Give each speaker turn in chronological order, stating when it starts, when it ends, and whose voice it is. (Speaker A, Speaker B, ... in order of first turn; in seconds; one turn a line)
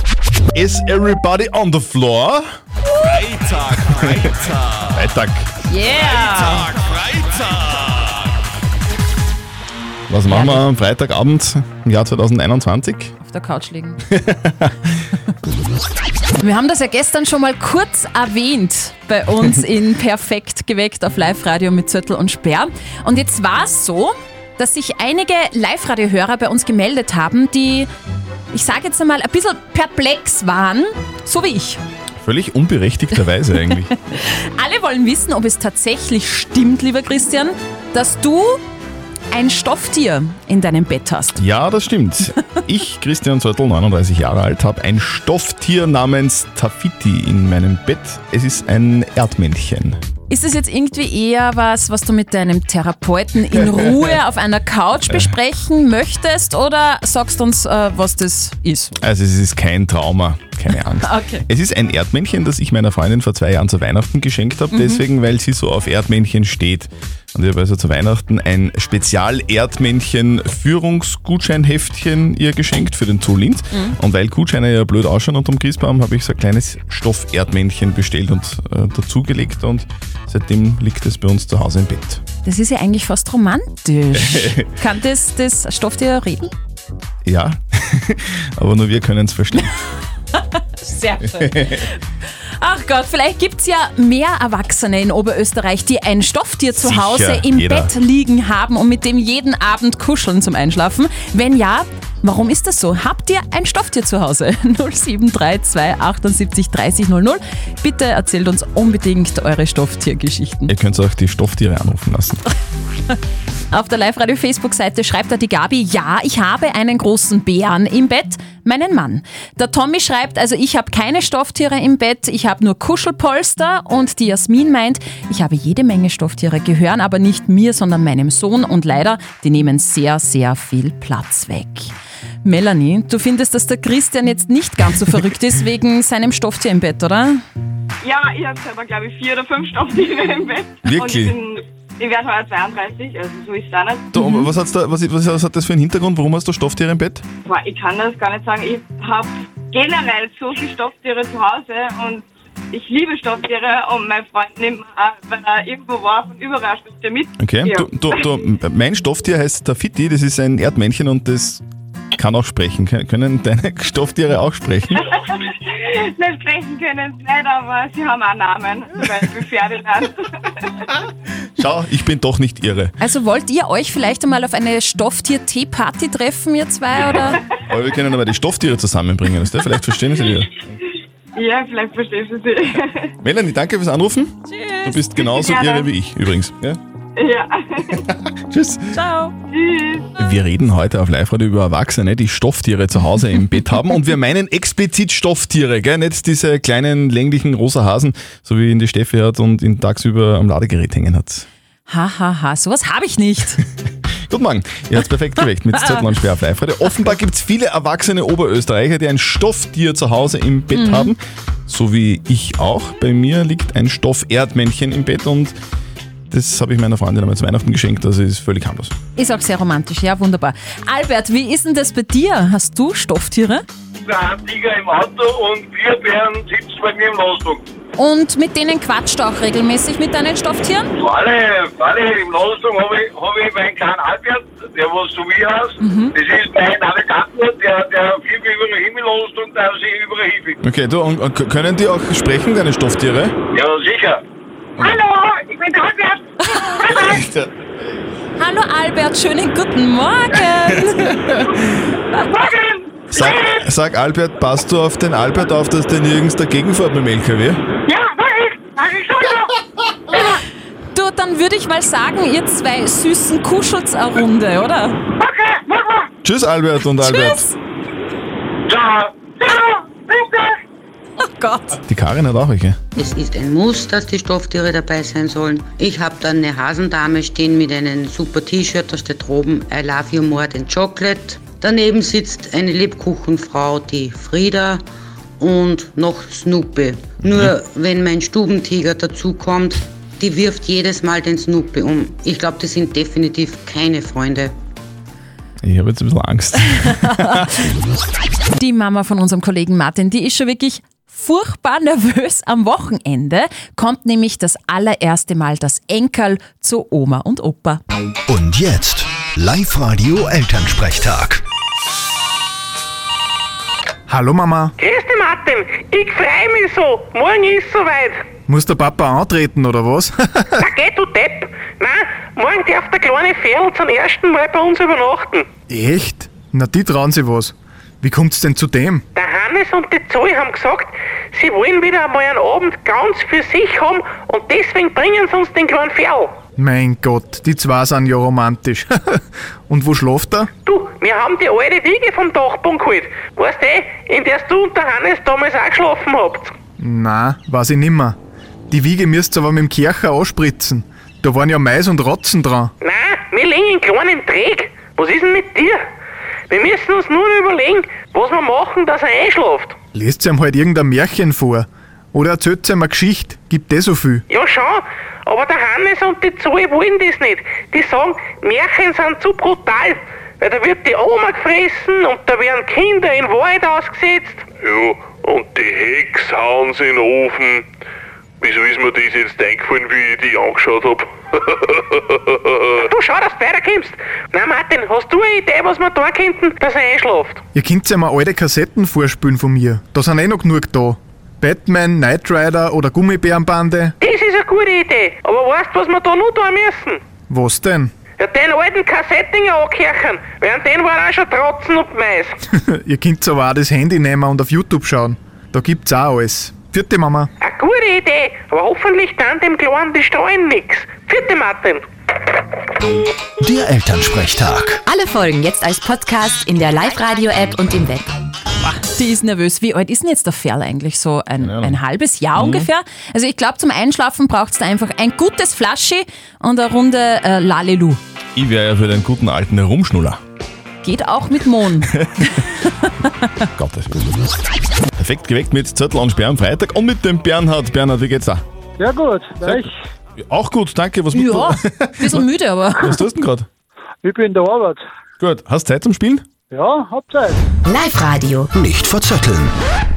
Speaker A: 0.5-2.5
Speaker A: 3.1-5.5
Speaker B: 5.7-6.7
Speaker A: 6.2-8.1
Speaker A: 10.1-13.1
Speaker B: 10.3-10.6
Speaker B: 13.2-14.0
Speaker A: 14.1-15.0
Speaker B: 16.4-27.9
Speaker B: 28.5-31.8
Speaker A: 32.2-33.9
Speaker B: 33.7-38.6
Speaker B: 39.3-41.4
Speaker A: 41.4-50.0
Speaker B: 50.3-58.9
Speaker A: 59.0-82.2
Speaker B: 61.0-61.4
Speaker B: 64.7-65.0
Speaker B: 73.7-74.0
Speaker B: 82.4-86.5
Speaker A: 84.1-84.7
Speaker A: 87.2-89.8
Speaker B: 90.3-92.0
Speaker A: 91.2-91.8
Speaker B: 92.6-110.7
Speaker A: 96.8-97.9
Speaker A: 110.7-112.4
Speaker B: 113.7-131.9
Speaker B: 132.4-137.4
Speaker C: 138.0-144.1
Speaker A: 140.8-141.3
Speaker A: 144.1-147.2
Speaker B: 144.2-144.4
Speaker C: 147.4-158.2
Speaker A: 157.4-161.6
Speaker A: 162.1-165.1
Speaker C: 165.0-170.9
Speaker A: 171.6-172.9
Speaker B: 173.0-177.4
Speaker A: 177.1-180.6
Speaker C: 181.3-183.1
Speaker A: 183.2-186.8
Speaker B: 184.5-185.1
Speaker C: 185.2-185.9
Speaker C: 187.2-188.0
Speaker A: 188.1-188.9
Speaker B: 188.9-189.3
Speaker C: 189.5-190.1
Speaker A: 190.2-201.4
Speaker B: 201.9-203.6
Speaker A: 204.3-215.6
Speaker B: 210.7-211.1
Speaker A: 216.3-218.9
Speaker B: 219.2-223.6
Speaker D: 224.0-227.6
Speaker B: 228.0-230.9
Speaker D: 231.0-240.6
Speaker B: 235.8-236.1
Speaker A: 240.6-243.3
Speaker D: 243.5-244.2
Speaker D: 244.8-246.2
Speaker B: 246.4-247.2
Speaker A: 246.9-248.0
Speaker B: 248.4-251.2
Speaker A: 250.8-251.8
Speaker A: 253.1-257.6
Speaker C: 257.9-259.4
Speaker D: 258.2-259.2
Speaker B: 260.9-265.0
Speaker D: 265.2-266.1
Speaker A: 266.2-267.5
Speaker B: 266.9-267.5
Speaker D: 268.7-270.6
Speaker B: 271.2-271.8
Speaker A: 271.8-272.8
Speaker E: 272.9-284.8
Speaker E: 285.4-294.5
Speaker A: 287.2-287.5
Speaker A: 295.6-297.5
Speaker B: 296.8-297.4
Speaker B: 298.5-307.8
Speaker F: 308.3-311.4
Speaker G: 314.1-314.7
Speaker H: 314.8-318.2
Speaker G: 318.5-320.6
Speaker H: 320.6-325.5
Speaker G: 325.7-329.0
Speaker H: 329.1-336.4
Speaker G: 336.6-340.5
Speaker H: 340.6-346.5
Speaker G: 346.8-348.1
Speaker G: 348.7-352.7
Speaker H: 352.8-355.9
Speaker H: 356.5-359.8
Speaker G: 359.9-364.2
Speaker H: 364.3-374.4
Speaker I: 374.6-377.6
Speaker I: 378.4-382.8
Speaker H: 382.8-387.4
Speaker G: 387.5-393.9
Speaker H: 394.0-397.0
Speaker G: 397.3-397.9
Speaker H: 398.2-402.4
Speaker G: 402.6-407.3
Speaker H: 407.4-411.8
Speaker F: 413.4-414.8
Speaker J: 414.9-418.1
Speaker B: 418.6-428.0
Speaker A: 421.4-421.8
Speaker A: 422.3-422.7
Speaker A: 428.4-430.2
Speaker B: 430.8-432.9
Speaker A: 431.9-432.4
Speaker A: 433.5-433.9
Speaker A: 434.9-438.4
Speaker K: 438.8-439.7
Speaker A: 439.4-442.2
Speaker B: 441.1-443.0
Speaker A: 442.8-443.5
Speaker K: 444.0-444.8
Speaker A: 445.2-446.2
Speaker K: 446.5-447.4
Speaker J: 447.6-448.5
Speaker F: 448.5-449.6